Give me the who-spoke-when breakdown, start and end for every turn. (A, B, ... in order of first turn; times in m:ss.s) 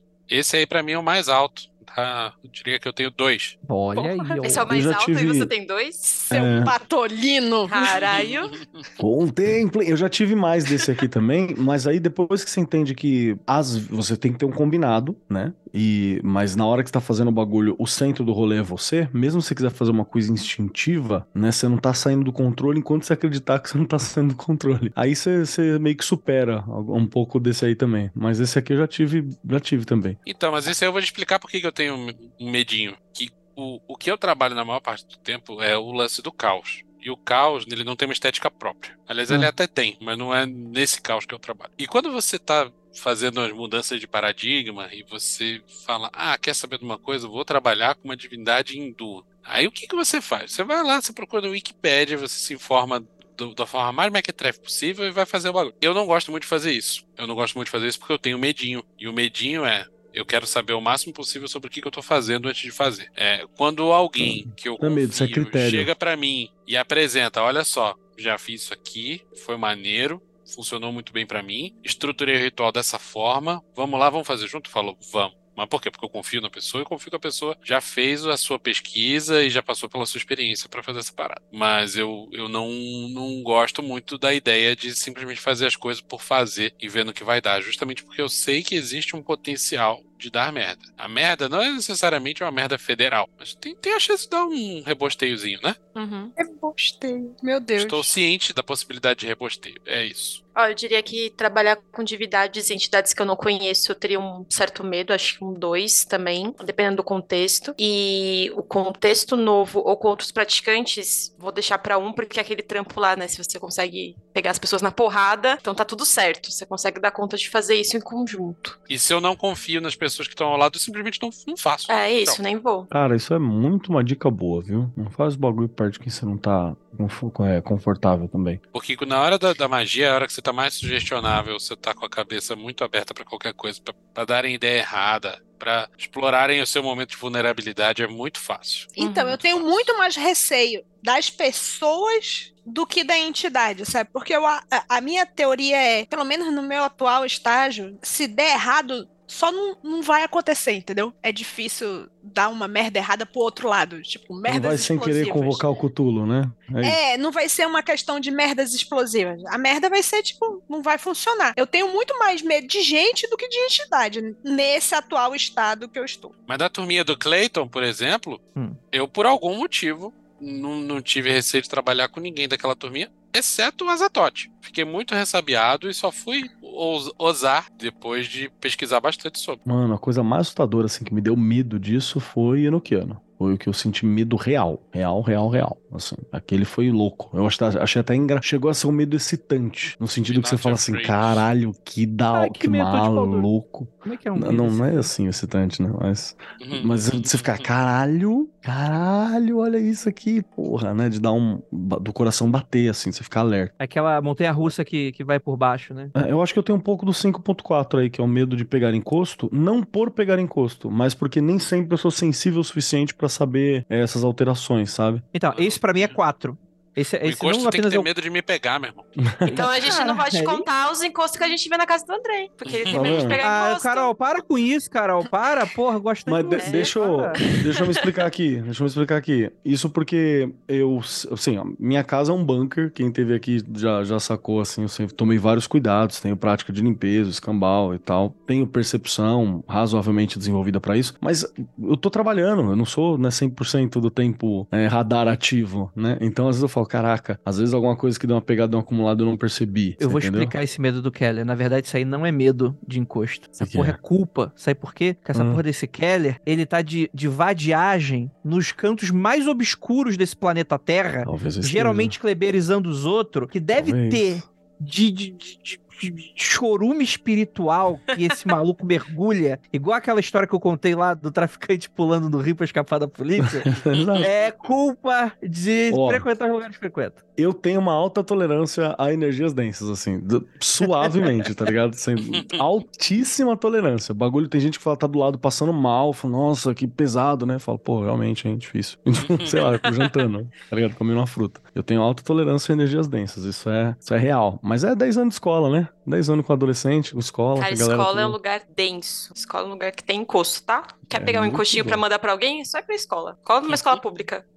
0:00.3-0:03.6 A
0:03.6-0:04.7 B
0:04.0-0:04.6 C
0:04.4-0:06.2 D
0:04.7-0:05.5 E
0:06.1-0:08.5 C
0:06.3-0:06.7 E
0:07.7-0:08.5 D
0:08.5-0:08.8 A
0:09.0-0:30.2 E
0:30.3-1:35.8 A
1:04.2-1:05.9 E
1:36.0-1:38.1 C
1:37.8-1:40.4 A
1:40.6-1:58.8 D
1:58.9-2:02.4 A
2:01.9-2:02.9 D
2:02.9-2:08.6 E
2:08.7-2:19.9 A
2:19.0-2:35.6 C
2:19.0-2:19.4 D
2:34.5-2:37.0 E
2:36.8-2:46.3 C
2:46.5-2:59.6 A
2:59.7-3:23.7 E
3:05.4-3:05.7 A
3:10.3-3:11.3 A
3:12.3-3:13.5 B
3:14.0-3:15.1 B
3:16.6-3:17.7 A
3:23.8-3:26.1 B
3:26.2-3:35.2 E
3:35.3-3:38.1 B
3:35.5-3:36.2 A
3:37.2-3:39.1 A
3:39.2-3:39.5 E
3:39.5-3:40.7 B
3:39.5-3:44.1 D
3:42.6-3:43.4 A
3:42.9-3:43.4 E
3:43.4-3:47.4 B
3:46.3-4:10.6 E
3:46.6-3:48.1 D
4:10.0-4:33.7 B
4:13.6-4:14.0 E
4:15.3-4:15.6 E
4:21.2-4:22.2 E
4:23.8-4:24.4 E
4:33.4-4:34.3 E
4:33.9-4:34.5 A
4:34.2-4:37.2 B
4:35.9-4:36.3 E
4:37.4-4:58.4 E
4:42.3-4:42.6 A
4:49.2-4:49.8 A
4:57.6-5:04.4 D
5:01.2-5:02.0 E
5:03.7-5:04.0 A